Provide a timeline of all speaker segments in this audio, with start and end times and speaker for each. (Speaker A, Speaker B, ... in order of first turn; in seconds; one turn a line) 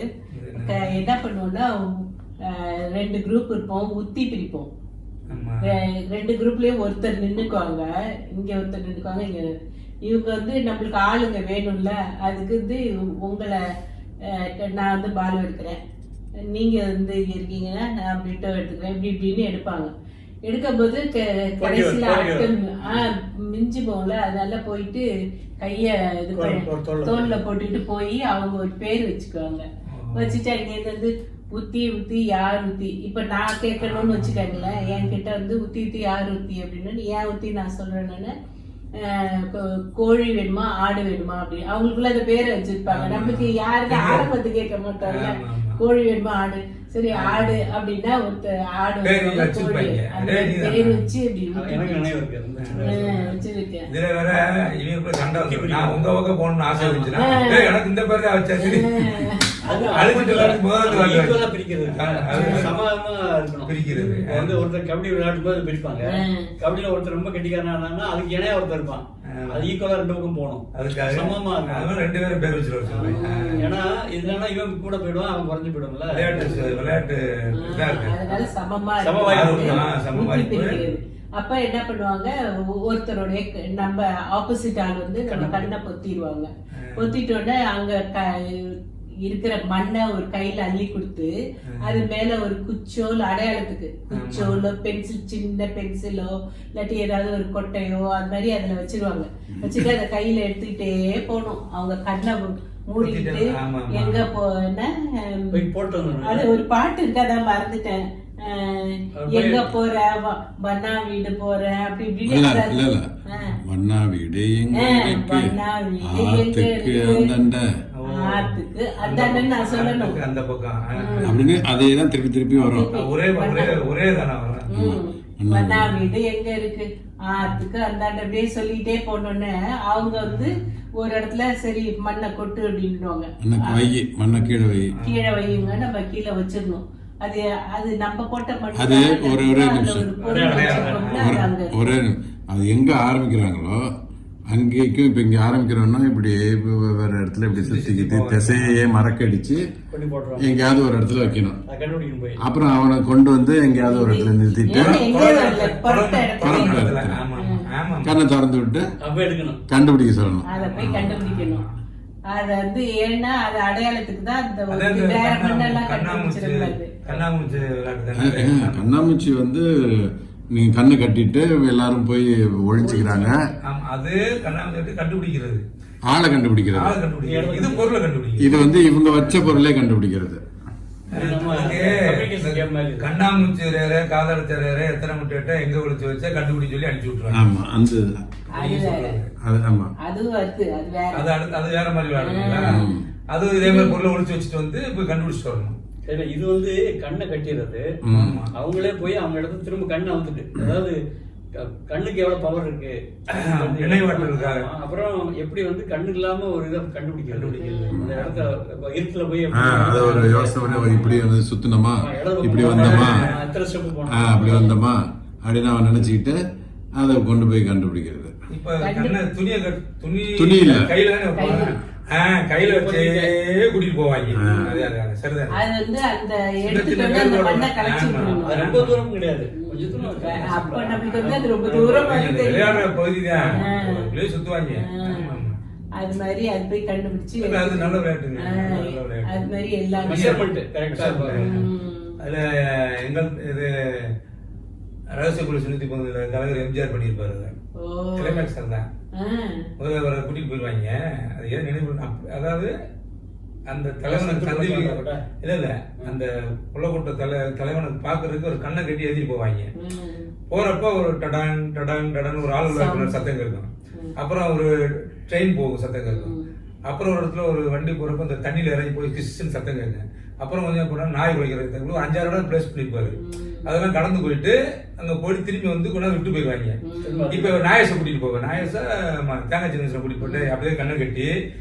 Speaker A: 0.3-1.0
Speaker B: 0.6-4.7
Speaker A: 5.3-5.8
Speaker B: 5.6-9.5
Speaker B: 10.0-13.6
Speaker B: 14.3-15.8
Speaker B: 16.5-19.9
Speaker B: 20.4-25.0
Speaker C: 21.6-23.0
Speaker B: 25.6-38.3
Speaker C: 26.3-27.4
Speaker A: 29.9-30.4
Speaker A: 33.8-35.2
Speaker B: 39.0-52.1
Speaker A: 42.9-44.3
Speaker A: 45.0-45.8
Speaker A: 47.1-47.6
Speaker A: 49.0-51.1
Speaker C: 51.5-53.4
Speaker A: 52.6-53.0
Speaker B: 52.8-53.9
Speaker A: 53.9-62.8
Speaker C: 55.2-56.1
Speaker C: 56.7-57.1
Speaker B: 57.1-57.7
Speaker B: 58.6-59.9
Speaker C: 59.6-72.1
Speaker B: 62.3-62.7
Speaker A: 63.6-64.6
Speaker B: 63.9-64.2
Speaker B: 66.0-66.5
Speaker A: 69.2-69.7
Speaker A: 70.7-73.7
Speaker C: 72.8-76.8
Speaker B: 73.0-73.7
Speaker A: 76.1-78.2
Speaker B: 76.3-76.8
Speaker B: 77.5-91.3
Speaker C: 78.3-79.8
Speaker A: 79.3-80.8
Speaker C: 85.2-85.7
Speaker A: 86.7-87.1
Speaker A: 91.7-92.0
Speaker B: 91.8-105.6
Speaker A: 94.1-94.6
Speaker D: 99.5-99.8
Speaker A: 103.0-104.3
Speaker C: 105.5-106.6
Speaker B: 106.2-113.6
Speaker C: 109.1-109.7
Speaker D: 112.2-113.1
Speaker D: 113.6-117.7
Speaker B: 114.7-117.3
Speaker A: 118.0-121.7
Speaker B: 118.1-120.2
Speaker B: 121.0-121.4
Speaker D: 121.2-122.9
Speaker B: 122.6-123.8
Speaker A: 122.9-124.7
Speaker B: 124.7-133.9
Speaker D: 124.7-125.9
Speaker A: 130.0-130.5
Speaker D: 133.4-134.9
Speaker A: 134.9-135.8
Speaker B: 135.0-141.8
Speaker D: 138.8-140.1
Speaker C: 140.2-141.3
Speaker A: 140.4-141.4
Speaker D: 141.2-143.8
Speaker D: 144.5-149.6
Speaker A: 147.5-148.8
Speaker C: 149.9-152.4
Speaker D: 150.4-151.6
Speaker D: 152.4-155.1
Speaker B: 153.8-157.6
Speaker A: 154.7-158.1
Speaker D: 156.4-157.2
Speaker D: 158.0-158.8
Speaker C: 159.0-159.6
Speaker D: 159.7-161.2
Speaker B: 160.4-161.6
Speaker A: 160.5-161.7
Speaker B: 162.3-166.9
Speaker A: 164.7-168.9
Speaker C: 167.1-167.6
Speaker D: 168.2-173.4
Speaker B: 172.8-173.5
Speaker A: 173.7-175.6
Speaker D: 176.1-177.0
Speaker A: 176.7-178.7
Speaker C: 177.2-177.9
Speaker D: 178.4-180.4
Speaker A: 179.2-179.4
Speaker A: 181.1-187.5
Speaker C: 181.1-183.5
Speaker D: 187.3-188.2
Speaker B: 188.6-189.2
Speaker A: 188.6-189.3
Speaker D: 189.4-189.9
Speaker B: 190.0-191.3
Speaker A: 191.1-195.8
Speaker B: 192.2-192.8
Speaker D: 192.6-193.0
Speaker B: 193.5-194.0
Speaker C: 196.1-197.8
Speaker D: 198.0-198.4
Speaker A: 198.1-198.5
Speaker C: 198.5-201.0
Speaker C: 201.6-211.2
Speaker A: 203.3-204.7
Speaker A: 207.3-208.5
Speaker B: 207.6-208.1
Speaker D: 209.5-213.3
Speaker A: 210.6-211.0
Speaker C: 212.0-214.7
Speaker A: 212.5-213.4
Speaker D: 214.1-216.4
Speaker B: 214.4-214.7
Speaker D: 216.9-218.3
Speaker A: 218.5-225.6
Speaker B: 218.8-219.2
Speaker D: 220.3-220.9
Speaker B: 221.3-221.7
Speaker C: 222.6-223.3
Speaker D: 224.3-224.8
Speaker B: 224.4-224.9
Speaker B: 225.5-228.6
Speaker A: 226.7-229.0
Speaker C: 228.2-232.1
Speaker B: 229.5-232.9
Speaker A: 231.3-235.6
Speaker B: 233.5-234.1
Speaker B: 234.7-235.4
Speaker B: 236.0-240.4
Speaker A: 237.4-241.7
Speaker C: 240.0-241.5
Speaker B: 241.3-242.2
Speaker A: 242.2-244.1
Speaker A: 245.1-247.5
Speaker B: 247.8-248.5
Speaker A: 248.2-248.9
Speaker B: 249.2-249.7
Speaker A: 249.8-252.7
Speaker A: 253.7-259.7
Speaker C: 254.0-255.2
Speaker B: 259.8-260.3
Speaker A: 260.5-266.3
Speaker B: 262.7-263.3
Speaker B: 266.1-266.4
Speaker A: 266.9-276.8
Speaker B: 273.1-273.7
Speaker B: 276.8-277.3
Speaker C: 277.0-277.6
Speaker A: 277.3-281.3
Speaker B: 280.2-280.5